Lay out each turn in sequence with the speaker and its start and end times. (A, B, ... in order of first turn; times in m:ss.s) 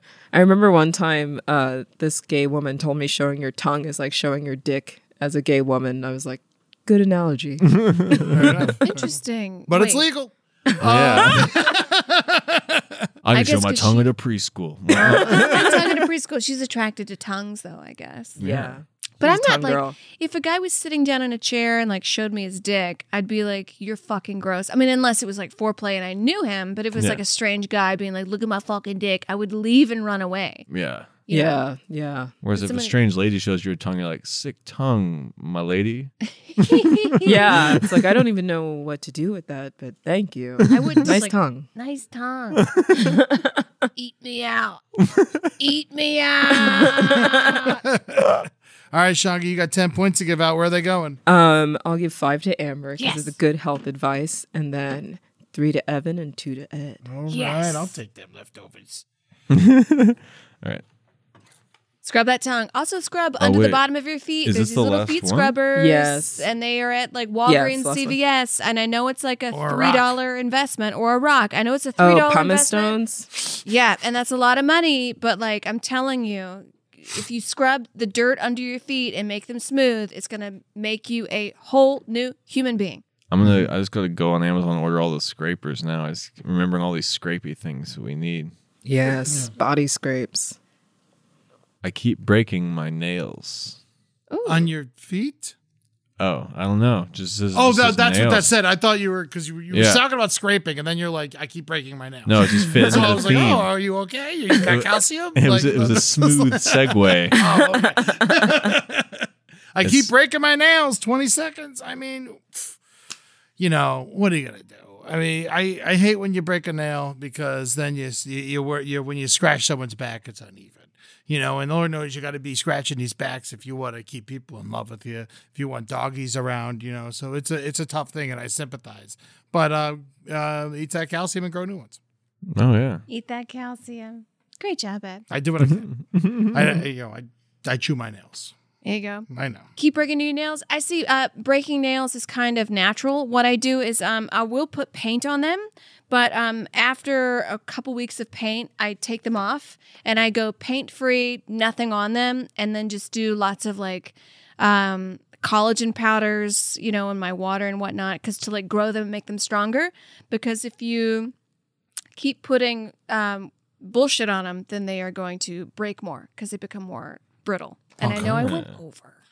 0:00.3-0:08.4 A
0:07.7-0:08.7 B
0:08.3-0:09.2 C
0:08.8-0:10.0 D
0:09.7-0:13.1 C
0:10.8-0:11.5 B
0:13.2-0:15.9 B
0:13.3-0:14.1 D
0:14.9-0:18.4 D
0:18.4-0:18.8 B
0:18.4-0:20.0 A
0:19.2-0:30.6 D
0:30.7-0:31.1 B
0:31.3-0:31.6 D
0:31.3-0:32.3 A
0:32.4-0:37.9 B
0:32.5-0:32.9 D
0:36.3-0:37.4 D
0:37.2-0:41.7 A
0:40.7-0:42.7 D
0:40.7-0:41.1 B
0:43.0-0:43.6 A
0:44.0-0:44.8 D
0:45.6-0:47.8 D
0:46.8-0:47.1 A
0:47.3-0:51.2 C
0:51.3-0:57.0 A
0:53.0-0:53.3 D
0:57.0-0:59.0 C
0:57.3-0:57.9 D
0:59.5-1:00.8 B
1:02.0-1:13.0 D
1:03.4-1:03.8 B
1:04.4-1:05.6 B
1:05.7-1:06.5 A
1:07.4-1:08.2 A
1:09.5-1:10.1 C
1:12.0-1:13.3 A
1:13.6-1:23.0 D
1:23.3-1:28.5 B
1:28.8-1:30.6 A
1:31.8-1:33.8 B
1:34.3-1:34.7 D
1:34.4-1:35.6 C
1:36.2-1:38.5 B
1:37.5-1:52.8 C
1:39.7-1:40.0 B
1:42.2-1:43.7 B
1:44.7-1:47.4 B
1:47.4-1:48.5 A
1:49.8-1:50.1 B
1:53.6-2:12.0 C
2:12.5-2:13.0 B
2:13.1-2:15.2 D
2:15.3-2:15.9 C
2:15.6-2:16.8 B
2:16.5-2:18.5 C
2:18.8-2:41.3 D
2:19.3-2:19.7 C
2:42.2-2:49.2 D
2:48.0-2:48.8 B
2:48.0-2:48.4 C